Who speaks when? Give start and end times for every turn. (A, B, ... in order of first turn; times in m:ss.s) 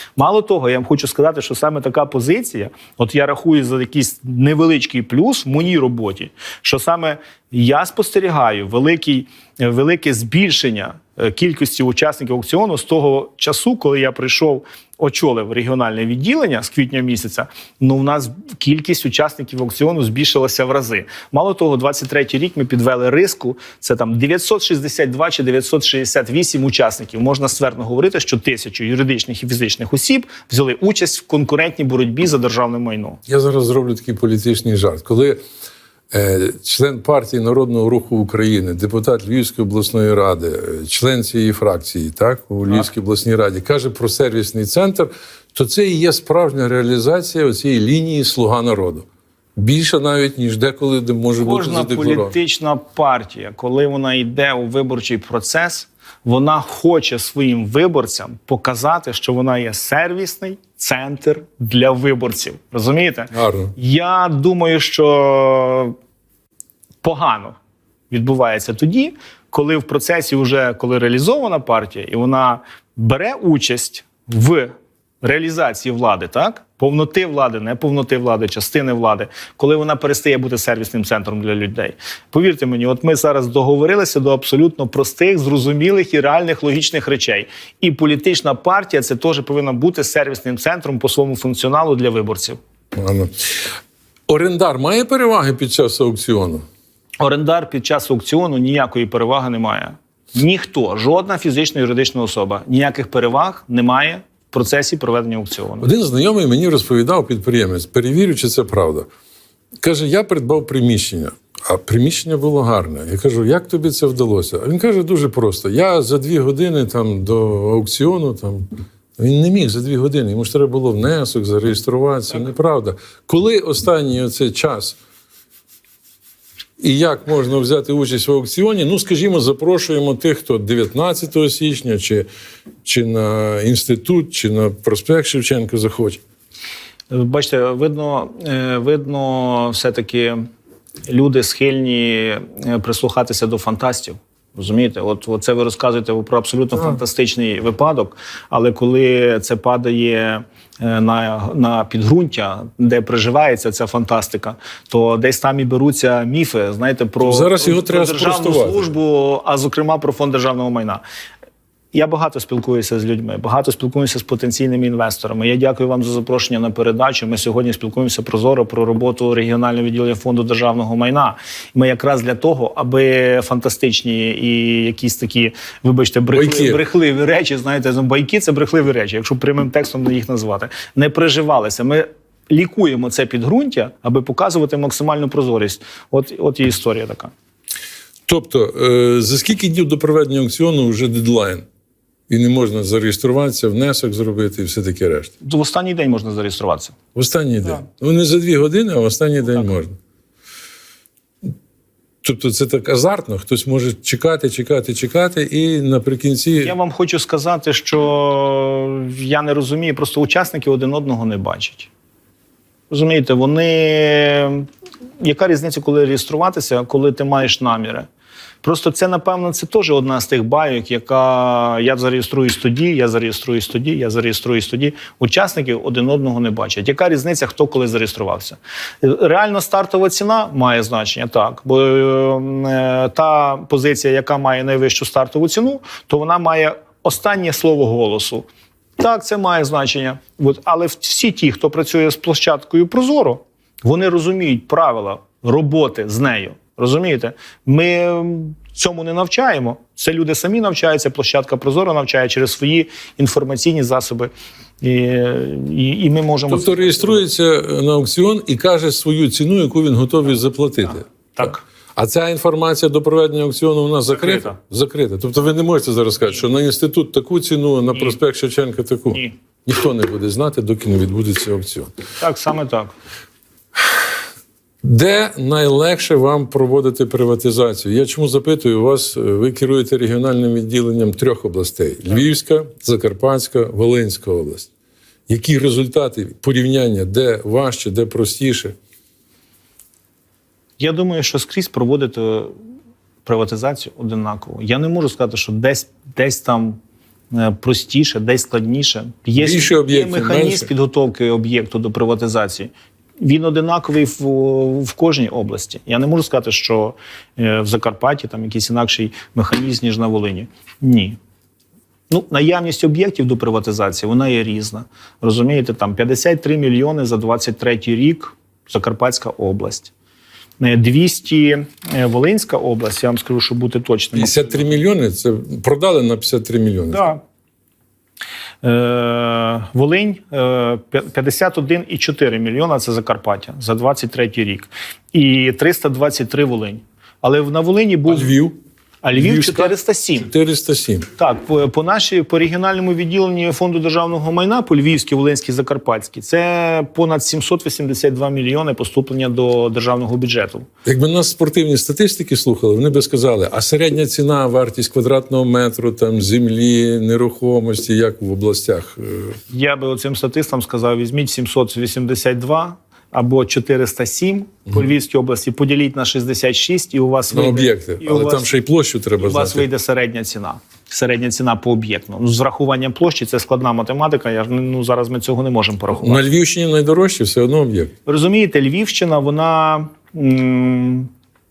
0:00.2-0:33.2 A
0:33.3-0:35.4 B
0:36.1-0:52.4 B
0:51.4-1:06.0 A
1:03.3-1:03.7 B
1:07.0-1:07.6 A
1:08.1-1:32.6 A
1:33.0-1:33.6 B
1:34.3-1:36.6 B
1:37.2-1:45.9 A
1:45.8-1:49.1 B
1:49.8-2:05.0 B
2:06.8-2:12.3 B
2:12.8-2:16.2 B
2:17.1-2:20.4 A
2:21.1-2:41.0 A
2:37.2-2:38.9 B
2:41.9-3:07.3 A
2:56.3-2:56.8 B
3:08.3-3:11.6 B
3:12.3-3:15.3 B
3:15.4-3:17.0 A
3:17.2-3:20.0 B
3:22.2-3:26.7 B
3:26.6-3:31.9 A
3:32.9-3:34.7 A
3:35.2-3:38.1 A
3:38.6-3:58.5 A
3:59.0-4:17.2 A
4:16.5-4:31.9 B
4:21.4-4:21.6 A
4:24.1-4:24.6 A
4:32.2-4:32.9 A
4:34.8-4:44.7 B
4:45.3-4:48.8 B
4:50.8-4:52.6 A
4:53.2-4:56.8 A
4:57.3-5:11.2 A
4:59.4-5:00.7 B
5:12.1-5:19.9 A
5:20.6-5:24.8 A
5:24.2-5:27.1 B
5:26.9-5:27.2 A
5:28.6-5:38.4 A
5:38.1-5:38.6 B
5:39.0-5:40.3 A
5:39.2-5:41.1 B
5:41.2-5:50.7 A
5:50.8-5:59.4 B
5:59.5-6:08.5 A
6:07.3-6:09.6 B
6:09.2-6:16.3 A
6:16.0-6:17.9 B
6:18.1-6:21.1 A